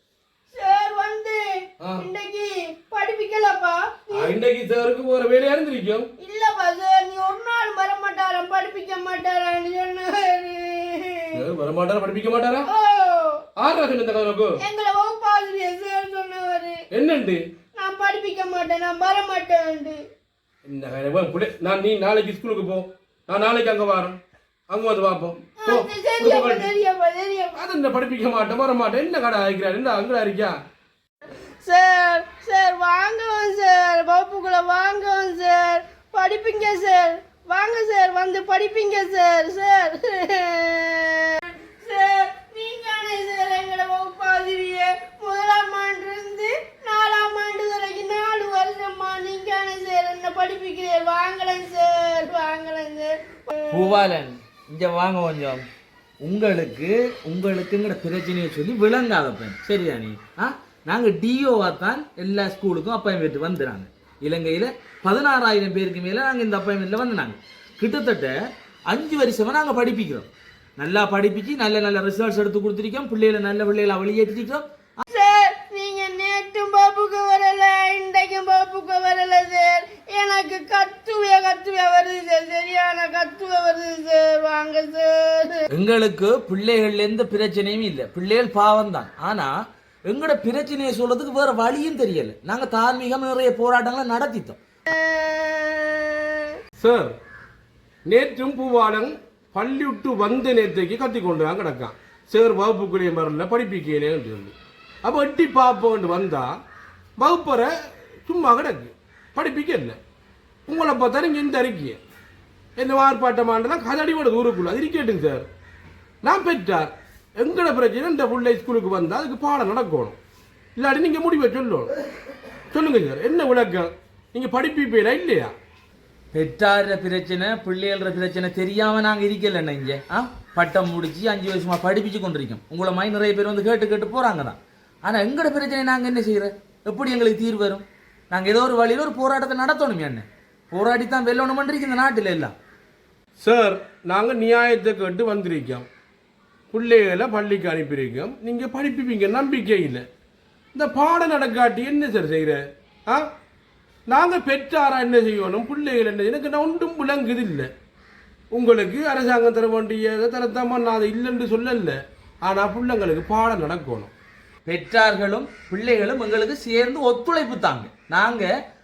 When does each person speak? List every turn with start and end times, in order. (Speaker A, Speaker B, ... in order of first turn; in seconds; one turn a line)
Speaker A: 0.5-1.4
Speaker B: 1.8-2.0
Speaker A: 2.0-4.3
Speaker B: 4.1-6.1
Speaker A: 6.2-11.4
Speaker B: 11.3-12.7
Speaker A: 12.6-13.4
Speaker B: 13.6-14.6
Speaker A: 14.6-16.8
Speaker B: 16.9-17.4
Speaker A: 17.7-20.0
Speaker B: 20.6-24.2
Speaker B: 24.7-26.7
Speaker A: 25.6-27.6
Speaker B: 27.5-30.5
Speaker A: 31.6-54.0
Speaker C: 53.7-55.6
Speaker C: 56.2-68.3
Speaker C: 68.9-75.0
Speaker A: 75.1-85.6
Speaker C: 85.7-89.5
Speaker C: 90.1-94.6
Speaker A: 94.9-96.4
Speaker B: 96.8-97.1
Speaker B: 98.0-104.5
Speaker B: 105.0-106.5
Speaker B: 107.2-107.7
Speaker B: 108.2-110.0
Speaker B: 110.7-112.0
Speaker B: 112.8-115.5
Speaker B: 116.2-120.2
Speaker B: 120.8-121.9
Speaker B: 122.7-125.5
Speaker C: 126.3-142.5
Speaker B: 143.4-145.8
Speaker B: 146.7-150.0
Speaker B: 150.7-153.2
Speaker B: 154.1-157.7
Speaker B: 158.5-164.1
Speaker C: 164.7-168.5